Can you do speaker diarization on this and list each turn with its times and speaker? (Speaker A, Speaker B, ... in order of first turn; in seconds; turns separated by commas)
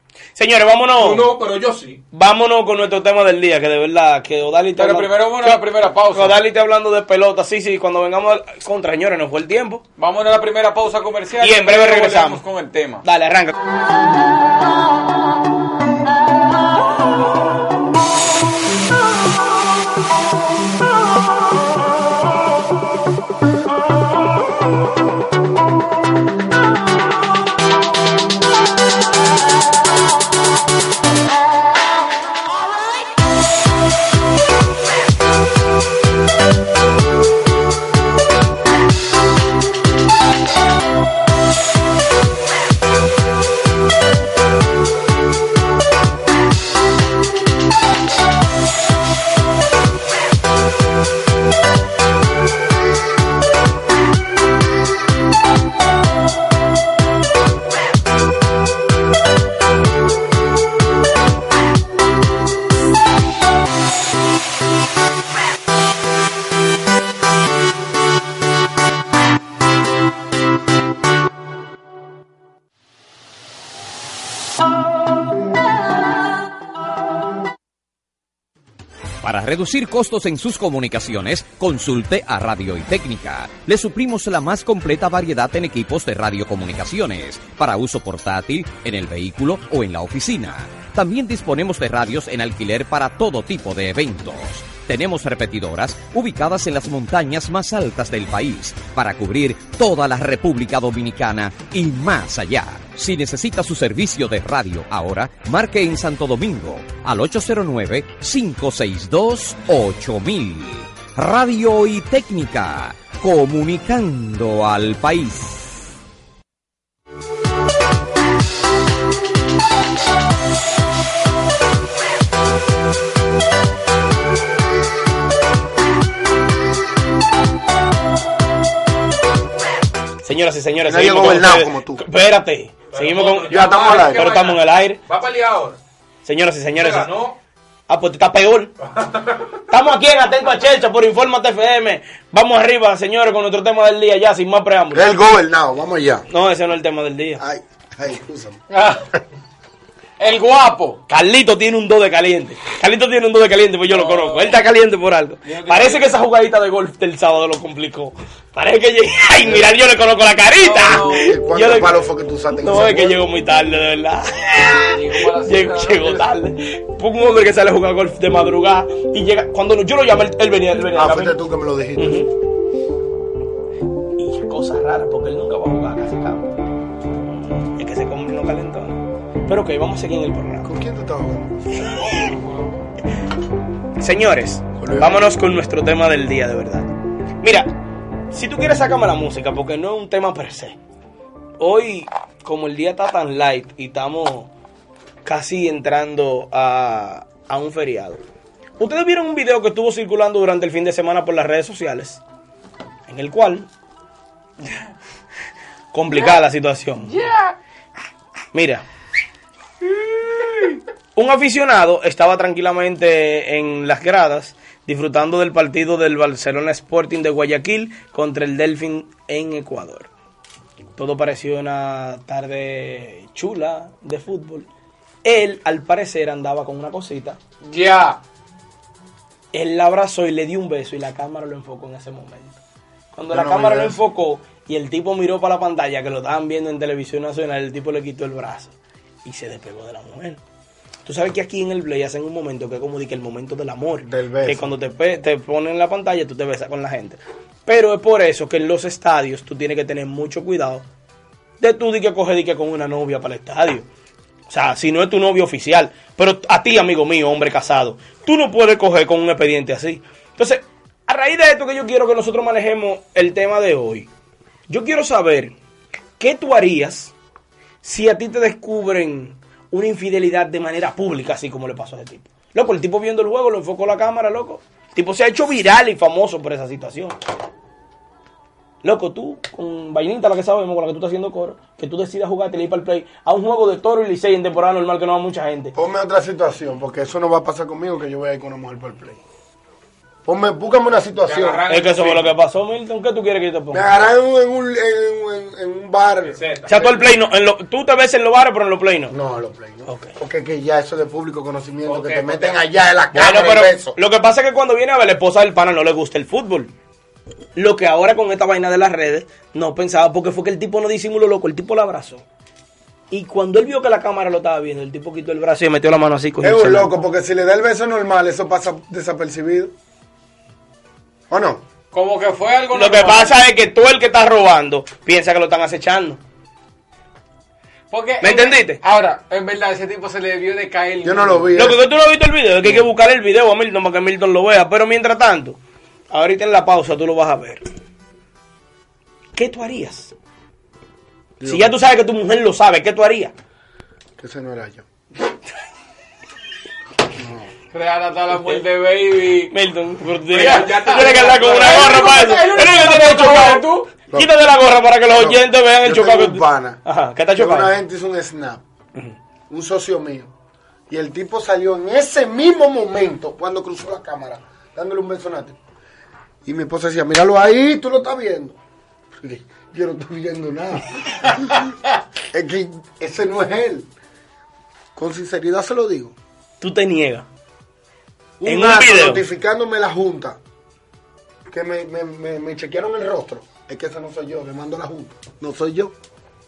Speaker A: 0.3-1.3, Speaker B: 1.0-2.0, Speaker A: 2.1-9.8, Speaker C: 4.8-6.4, Speaker C: 10.0-13.0, Speaker A: 11.4-12.4, Speaker A: 13.0-13.5, Speaker D: 79.2-115.8, Speaker A: 130.2-135.0, Speaker E: 130.8-132.0, Speaker B: 132.9-135.8, Speaker E: 133.4-134.3, Speaker A: 136.2-137.1, Speaker B: 136.7-137.4, Speaker A: 137.9-138.7, Speaker B: 138.8-139.4, Speaker A: 139.7-145.1, Speaker E: 144.9-146.2, Speaker A: 146.3-147.4, Speaker E: 147.4-148.6, Speaker C: 148.7-149.1, Speaker C: 150.2-151.0, Speaker A: 151.1-162.0, Speaker C: 153.9-154.6, Speaker C: 155.4-156.1, Speaker E: 159.4-159.7, Speaker C: 160.6-161.4, Speaker E: 160.8-163.2, Speaker A: 162.6-171.4, Speaker C: 164.9-166.3, Speaker E: 170.9-172.3, Speaker A: 171.9-172.3, Speaker A: 174.2-176.5, Speaker A: 177.5-180.7, Speaker E: 180.6-181.9, Speaker C: 182.1-182.7, Speaker A: 184.0-186.9, Speaker E: 184.8-185.3, Speaker A: 187.4-187.7, Speaker A: 188.3-190.8, Speaker A: 191.6-194.5, Speaker A: 195.2-198.2, Speaker A: 198.8-202.2, Speaker A: 203.1-203.7, Speaker C: 204.6-204.9, Speaker A: 205.9-207.2, Speaker C: 207.1-207.6, Speaker A: 208.5-208.8, Speaker C: 210.0-210.8, Speaker A: 211.1-220.1, Speaker A: 220.9-224.7, Speaker A: 225.2-227.4, Speaker C: 227.6-228.2, Speaker A: 229.5-232.6, Speaker A: 233.1-238.7, Speaker E: 233.3-234.0, Speaker A: 239.2-240.4, Speaker A: 241.0-250.8, Speaker E: 244.0-244.7, Speaker A: 251.6-253.8, Speaker A: 254.5-264.1, Speaker A: 264.7-265.5, Speaker A: 266.2-267.1, Speaker A: 267.8-277.1, Speaker A: 278.8-285.7, Speaker E: 285.7-289.2, Speaker E: 290.2-291.6, Speaker B: 291.2-292.3, Speaker A: 291.7-293.9, Speaker E: 293.7-296.9, Speaker B: 296.3-297.0, Speaker A: 296.7-299.1, Speaker E: 299.1-303.9, Speaker A: 299.9-300.1, Speaker B: 301.9-302.6, Speaker A: 303.1-306.7, Speaker A: 307.6-312.2, Speaker A: 313.1-316.9, Speaker E: 316.4-319.7, Speaker E: 321.3-321.6, Speaker C: 321.9-323.4, Speaker A: 322.7-326.2, Speaker C: 327.9-331.5, Speaker A: 328.2-328.8, Speaker E: 331.0-331.8, Speaker A: 331.5-335.6, Speaker A: 336.1-337.6, Speaker A: 339.3-340.1, Speaker E: 341.4-341.7, Speaker A: 341.4-343.3, Speaker E: 344.2-344.8, Speaker E: 347.1-347.5, Speaker C: 347.7-349.5, Speaker A: 349.5-357.8, Speaker B: 350.3-352.2, Speaker C: 350.3-353.9, Speaker E: 355.1-356.8, Speaker E: 357.3-358.6, Speaker E: 359.5-360.3, Speaker E: 360.9-365.6, Speaker E: 366.4-368.6, Speaker E: 369.2-371.7, Speaker E: 372.3-373.9, Speaker E: 374.9-376.1, Speaker A: 376.6-377.2, Speaker E: 378.4-380.4, Speaker A: 378.4-379.2, Speaker E: 381.5-385.9